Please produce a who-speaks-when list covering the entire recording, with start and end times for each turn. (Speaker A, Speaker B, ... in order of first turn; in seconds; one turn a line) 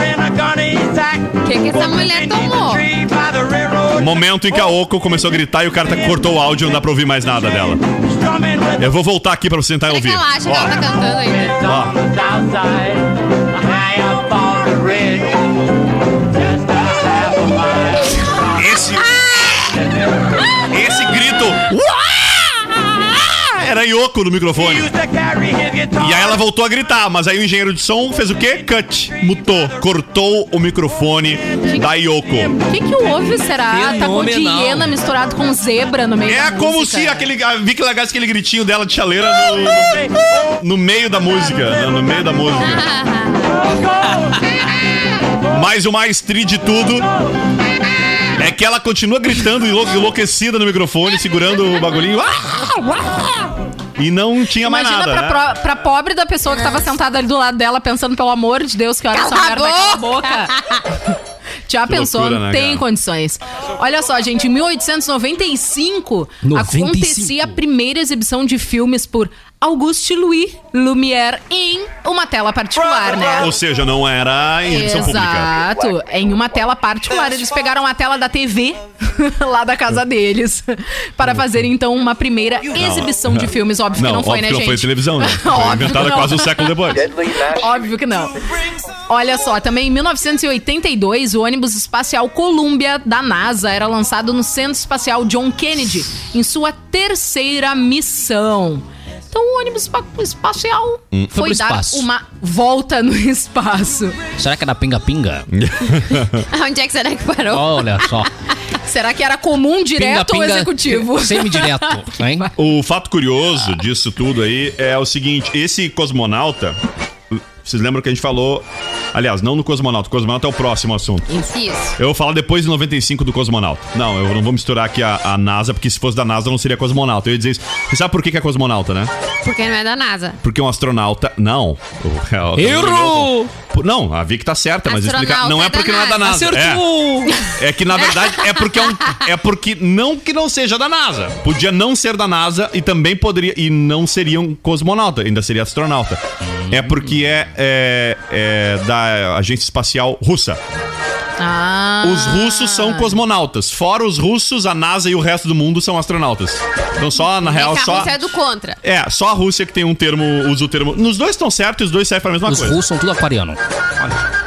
Speaker A: 1.3-3.1
Speaker B: 3.8-7.8
Speaker B: 8.5-10.8
Speaker A: 9.9-11.7
Speaker B: 11.6-12.1
Speaker B: 18.5-19.7
Speaker B: 20.6-24.9
Speaker B: 25.9-32.5
Speaker C: 32.6-37.3
Speaker D: 33.7-34.9
Speaker B: 36.2-40.1
Speaker B: 40.6-42.9
Speaker A: 42.9-43.3
Speaker B: 45.5-47.1
Speaker B: 48.4-55.5
Speaker C: 54.6-60.5
Speaker A: 59.1-60.8
Speaker C: 61.7-73.5
Speaker B: 61.9-62.8
Speaker D: 66.4-67.5
Speaker B: 73.3-75.5
Speaker C: 74.7-88.3
Speaker B: 82.7-87.1
Speaker C: 89.1-104.3
Speaker D: 101.3-102.1
Speaker D: 104.3-105.5
Speaker B: 105.5-106.5
Speaker A: 106.5-108.2
Speaker D: 107.5-108.3
Speaker C: 108.7-112.1
Speaker D: 109.9-112.5
Speaker B: 112.5-116.8
Speaker B: 117.3-121.3
Speaker A: 121.4-122.0
Speaker B: 122.0-129.1
Speaker A: 129.4-130.4
Speaker B: 130.4-136.9
Speaker D: 132.6-133.5
Speaker A: 134.8-136.4
Speaker D: 136.2-137.4
Speaker B: 137.4-150.6
Speaker D: 146.5-146.9
Speaker C: 151.4-153.2
Speaker B: 152.0-158.2
Speaker A: 157.4-158.8
Speaker B: 158.8-162.8
Speaker D: 162.4-164.2